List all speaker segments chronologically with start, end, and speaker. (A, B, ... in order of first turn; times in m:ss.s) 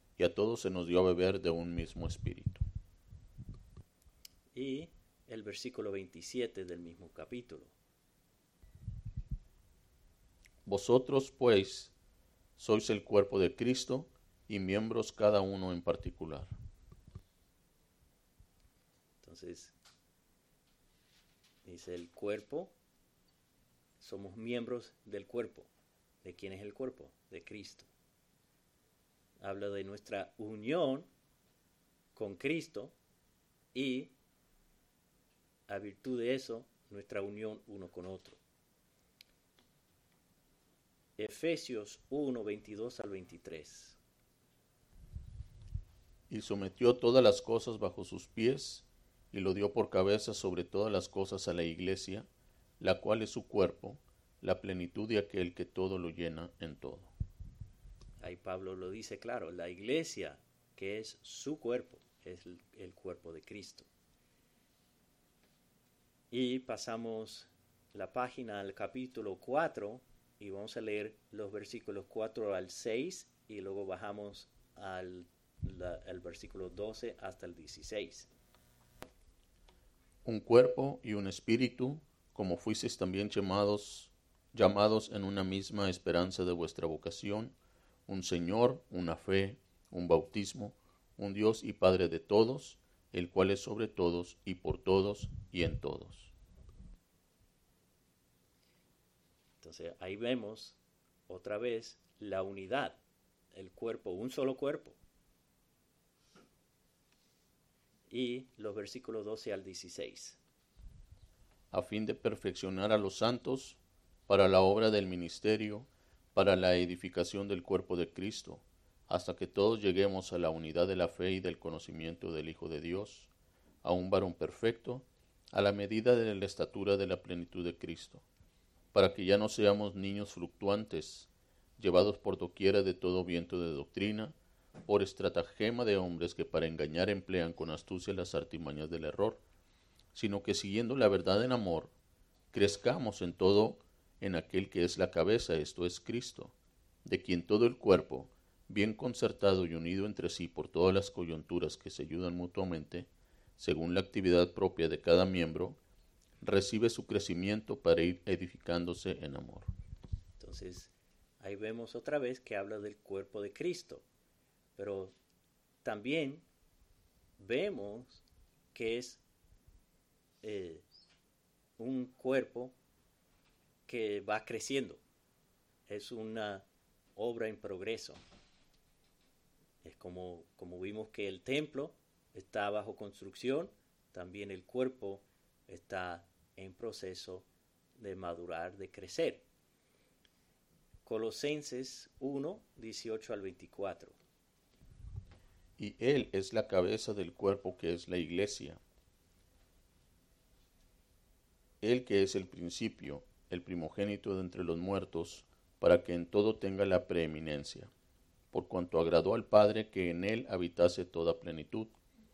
0:00.2-0:02.6 A
0:04.5-0:07.7 B
0:10.7-0:11.9 A
0:12.6-0:16.5 A
0:19.2-0:19.8 B
0:21.6-0:22.7 B
0:24.0-0:25.7 B
0:26.2-0:27.9 B
0:29.4-0:31.1 B
0:32.2-0:33.0 B
0:33.7-0:34.1 B
0:35.7-0:38.4 B
0:41.2-0:44.0 B
0:46.3-0:52.3 A
0:52.8-0:57.1 A
0:58.2-1:03.9 B
1:06.3-1:18.3 B
1:20.2-1:27.5 A
1:28.1-1:36.3 A
1:39.6-1:43.0 B
1:43.5-1:45.0 B
1:48.1-1:50.4 B
1:51.7-2:03.3 A
2:03.8-2:08.2 A
2:08.9-2:19.4 A
2:20.1-2:21.9 A
2:22.5-2:26.5 A
2:27.0-2:35.8 A
2:36.4-2:39.7 A
2:40.4-2:44.0 B
2:44.8-2:45.2 B
2:45.8-2:46.5 B
2:47.4-2:49.2 B
2:50.4-2:50.9 B
2:51.8-2:52.8 B
2:53.9-2:55.0 B
2:55.9-2:58.2 B
2:59.8-3:09.4 B
3:11.0-3:14.2 B
3:15.8-3:18.8 A
3:21.8-3:27.9 A
3:28.5-3:31.9 A